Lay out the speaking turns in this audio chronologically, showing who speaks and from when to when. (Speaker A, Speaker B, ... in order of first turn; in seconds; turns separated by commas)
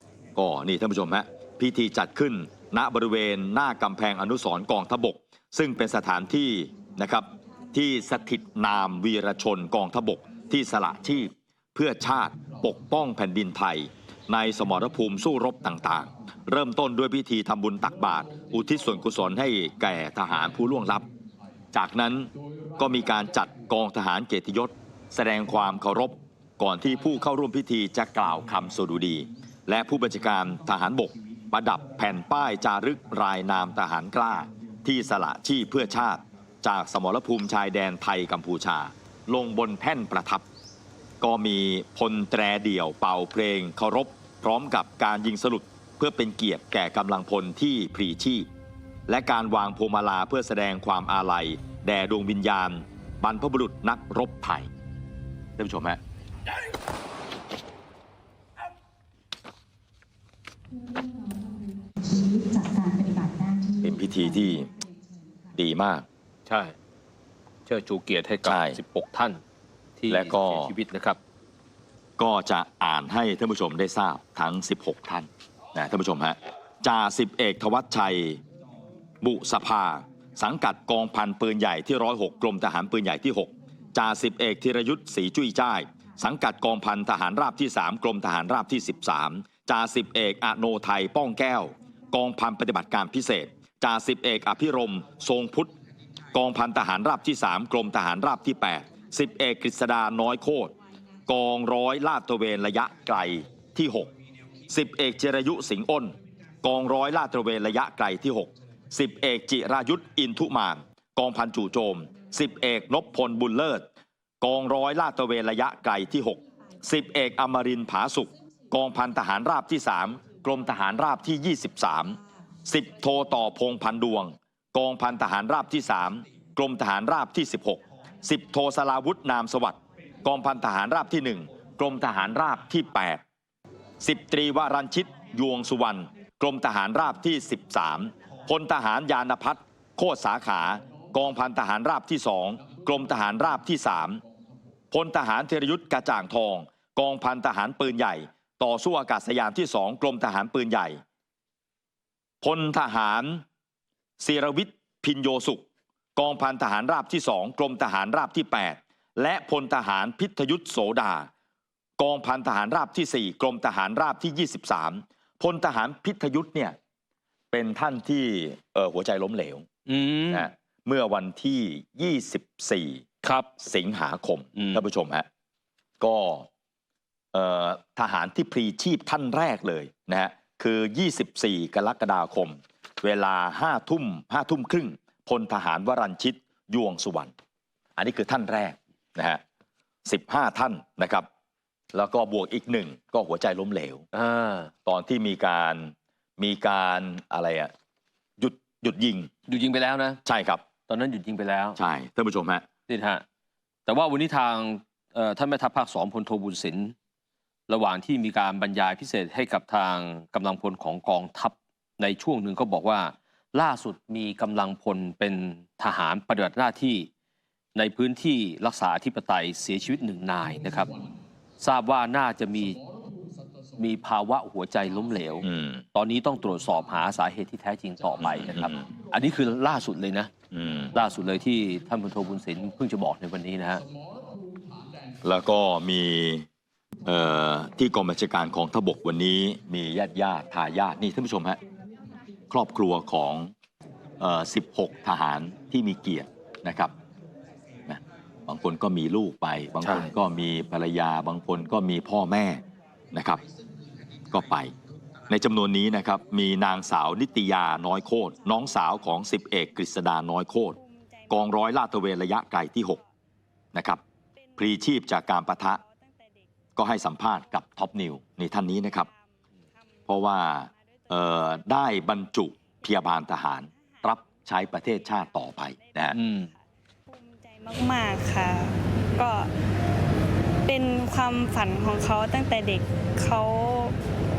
Speaker A: 0.4-21.1, Speaker A: 21.7-40.5, Speaker A: 41.2-48.5, Speaker A: 49.1-54.7, Speaker A: 55.6-56.0, Speaker B: 60.7-65.5, Speaker A: 63.8-64.7, Speaker A: 65.5-66.1, Speaker C: 66.5-66.8, Speaker C: 67.7-69.4, Speaker A: 68.4-68.8, Speaker C: 70.0-71.2, Speaker A: 70.1-70.7, Speaker A: 72.2-78.4, Speaker A: 79.2-95.7, Speaker A: 96.3-100.8, Speaker A: 101.3-104.1, Speaker A: 104.7-113.9, Speaker A: 114.4-133.2, Speaker A: 134.0-144.2, Speaker A: 144.9-151.0, Speaker A: 152.4-153.4, Speaker A: 154.2-161.3, Speaker A: 162.0-166.8, Speaker A: 167.5-169.7, Speaker C: 169.9-170.5, Speaker A: 170.3-173.1, Speaker C: 173.2-173.5, Speaker A: 173.6-175.3, Speaker C: 174.6-174.8, Speaker A: 176.0-176.5, Speaker A: 177.3-187.3, Speaker A: 188.0-189.4, Speaker A: 190.1-191.3, Speaker A: 191.9-194.1, Speaker C: 194.1-194.7, Speaker A: 194.9-197.7, Speaker A: 198.4-199.3, Speaker C: 199.5-200.2, Speaker A: 200.2-200.6, Speaker C: 200.9-201.8, Speaker A: 201.8-202.7, Speaker C: 202.9-203.2, Speaker C: 203.9-206.9, Speaker C: 207.7-217.1, Speaker C: 217.8-220.9, Speaker C: 221.6-222.8, Speaker C: 223.8-230.3, Speaker A: 225.4-225.8, Speaker A: 228.2-228.9, Speaker A: 230.5-230.9, Speaker C: 230.9-233.8, Speaker A: 235.2-236.5, Speaker A: 237.1-241.6, Speaker A: 242.5-243.5, Speaker A: 244.2-246.9, Speaker A: 247.9-253.4, Speaker C: 249.8-250.1, Speaker A: 254.3-254.7, Speaker A: 255.3-260.8, Speaker D: 260.8-261.3, Speaker A: 261.3-263.0, Speaker A: 263.7-264.0, Speaker A: 264.6-265.8, Speaker A: 266.8-269.1, Speaker A: 270.1-276.2, Speaker C: 276.1-276.5, Speaker D: 277.1-279.5, Speaker D: 280.6-284.0